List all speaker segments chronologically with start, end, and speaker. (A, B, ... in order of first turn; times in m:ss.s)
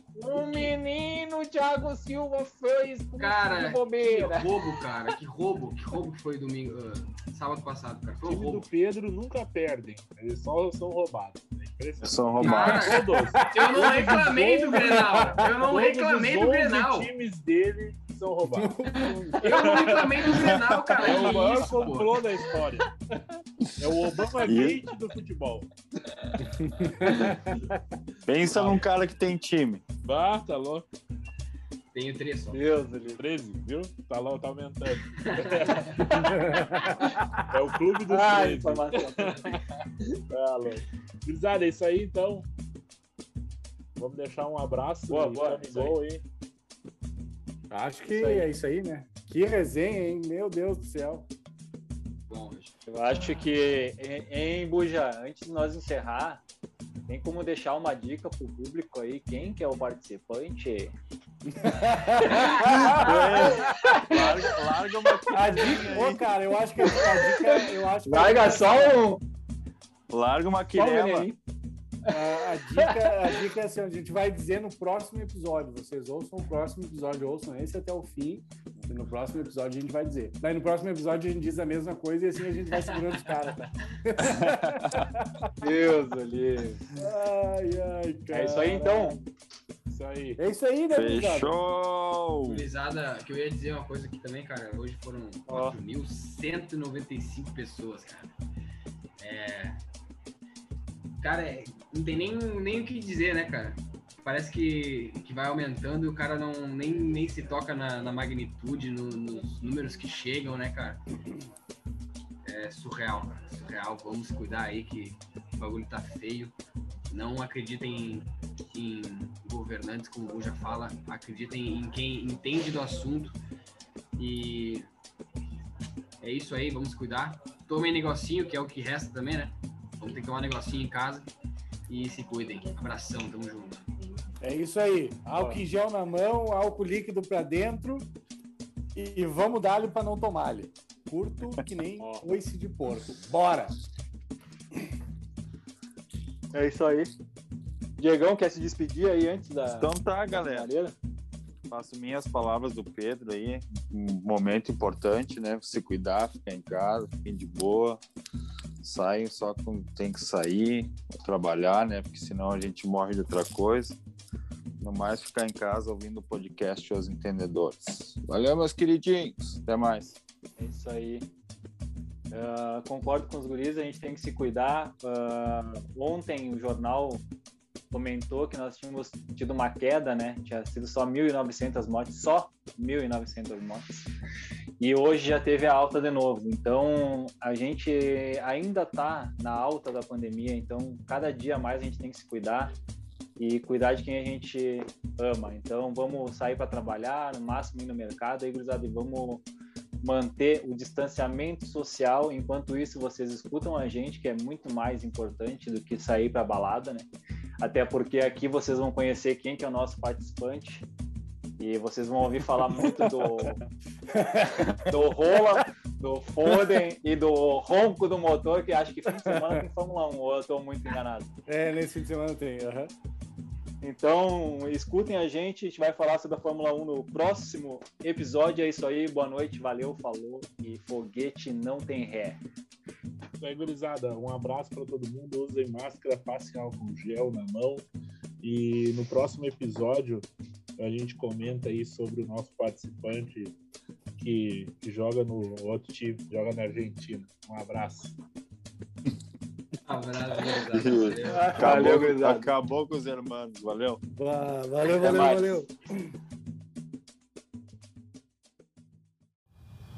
0:00.2-0:04.5 A
0:00.3-0:00.7 B
0:03.2-0:08.6 B
0:08.2-0:20.3 C
0:12.0-0:12.9 D
0:12.4-0:17.1 B
0:12.9-0:13.6 E
0:14.8-0:15.5 E
0:18.6-0:20.0 E
0:19.4-0:22.2 B
0:20.4-0:20.8 D
0:21.0-0:22.9 C
0:23.8-0:25.7 C
0:24.4-0:24.8 D
0:26.6-0:27.8 E
0:28.3-0:29.8 D
0:28.5-0:28.8 C
0:30.0-0:30.9 C
0:31.9-0:32.6 B
0:32.5-0:33.2 A
0:33.2-0:36.2 C
0:35.1-0:36.0 B
0:36.0-0:37.5 E
0:37.5-0:42.5 C
0:38.1-0:39.6 A
0:44.0-0:46.2 C
0:45.1-0:46.0 A
0:47.7-0:51.3 E
0:48.1-0:48.5 A
0:52.3-0:52.8 B
0:52.9-0:56.4 A
0:57.1-1:00.9 A
1:01.6-1:03.6 E
1:02.4-1:02.7 A
1:02.4-1:03.0 B
1:02.9-1:06.3 D
1:03.7-1:04.3 A
1:05.3-1:09.0 E
1:06.8-1:09.2 A
1:10.1-1:11.3 D
1:10.8-1:11.4 A
1:12.1-1:25.5 E
1:12.8-1:13.1 A
1:22.7-1:23.6 B
1:24.2-1:25.1 D
1:25.6-1:26.9 A
1:27.0-1:29.2 E
1:28.3-1:29.2 A
1:29.9-1:30.4 C
1:30.4-1:31.5 E
1:30.9-1:32.6 D
1:32.5-1:38.3 B
1:35.5-1:35.8 D
1:39.2-1:39.8 B
1:41.2-1:51.0 B
1:52.4-1:56.5 B
1:57.1-2:03.4 B
2:04.2-2:04.9 B
2:06.2-2:11.3 B
2:11.9-2:13.9 B
2:14.4-2:18.0 E
2:15.4-2:15.6 A
2:19.0-2:23.8 E
2:22.0-2:22.3 A
2:26.5-2:27.1 A
2:28.0-2:30.9 A
2:29.7-2:30.7 D
2:31.7-2:38.0 D
2:38.8-2:44.0 D
2:44.8-2:50.2 D
2:50.6-2:51.3 A
2:52.3-2:57.2 A
2:57.9-3:04.1 A
3:04.8-3:12.7 A
3:13.4-3:19.4 A
3:20.0-3:27.1 A
3:27.6-3:30.8 A
3:31.6-3:33.6 A
3:32.8-3:35.5 E
3:34.9-3:41.3 A
3:39.3-3:39.6 E
3:41.5-3:42.9 E
3:43.8-3:52.4 A
3:53.4-3:57.9 C
3:58.4-4:03.6 C
4:04.2-4:08.2 C
4:09.9-4:12.0 B
4:10.7-4:14.0 D
4:11.4-4:12.5 A
4:14.2-4:15.7 E
4:14.9-4:15.6 A